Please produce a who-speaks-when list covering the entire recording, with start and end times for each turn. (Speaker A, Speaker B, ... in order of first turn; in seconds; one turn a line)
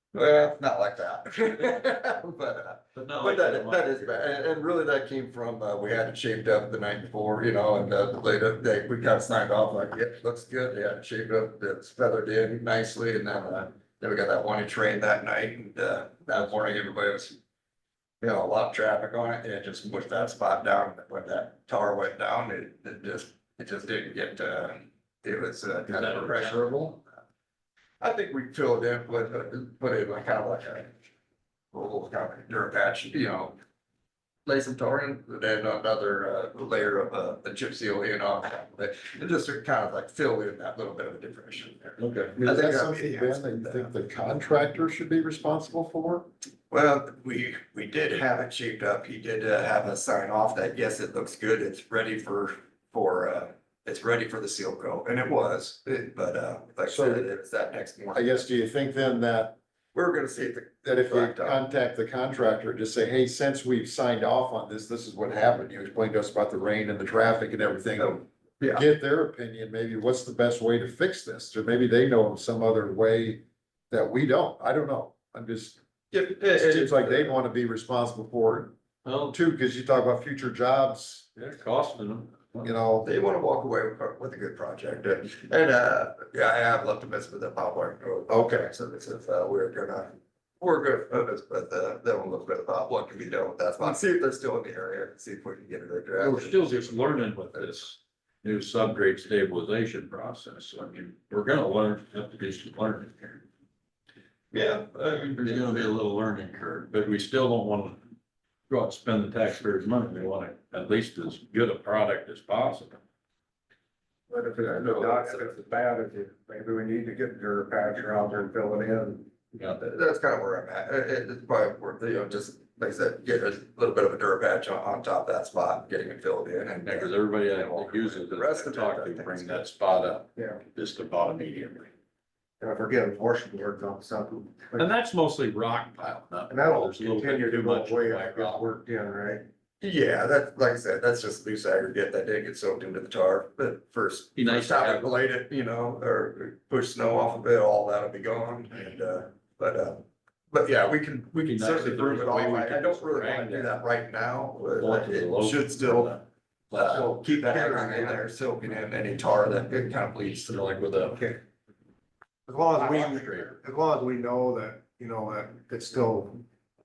Speaker A: 0.1-17.4
Speaker B: 2.9-4.3
Speaker A: 18.2-27.0
Speaker B: 25.9-27.0
Speaker A: 28.0-30.9
Speaker A: 31.7-33.6
Speaker A: 34.5-43.9
Speaker B: 42.0-42.4
Speaker C: 42.4-46.2
Speaker A: 46.7-58.5
Speaker C: 56.9-57.2
Speaker C: 58.1-59.6
Speaker A: 59.9-61.6
Speaker C: 60.8-75.8
Speaker A: 68.0-68.9
Speaker A: 76.1-77.4
Speaker C: 76.5-78.7
Speaker B: 79.0-79.4
Speaker C: 79.3-81.3
Speaker B: 81.4-82.7
Speaker C: 82.6-83.1
Speaker A: 83.0-97.8
Speaker C: 88.3-88.7
Speaker B: 96.2-103.4
Speaker A: 104.5-105.9
Speaker B: 105.1-108.0
Speaker B: 108.7-113.0
Speaker D: 114.3-119.3
Speaker A: 114.6-115.6
Speaker A: 119.7-129.7
Speaker B: 126.8-131.9
Speaker D: 132.6-134.9
Speaker B: 134.8-138.7
Speaker D: 136.5-139.5
Speaker A: 139.8-156.2
Speaker B: 144.3-145.1
Speaker B: 151.4-153.8
Speaker B: 154.8-157.1
Speaker A: 156.7-160.7
Speaker D: 156.9-158.3
Speaker B: 160.4-161.3
Speaker D: 161.1-161.4
Speaker D: 162.5-166.4
Speaker B: 162.8-163.5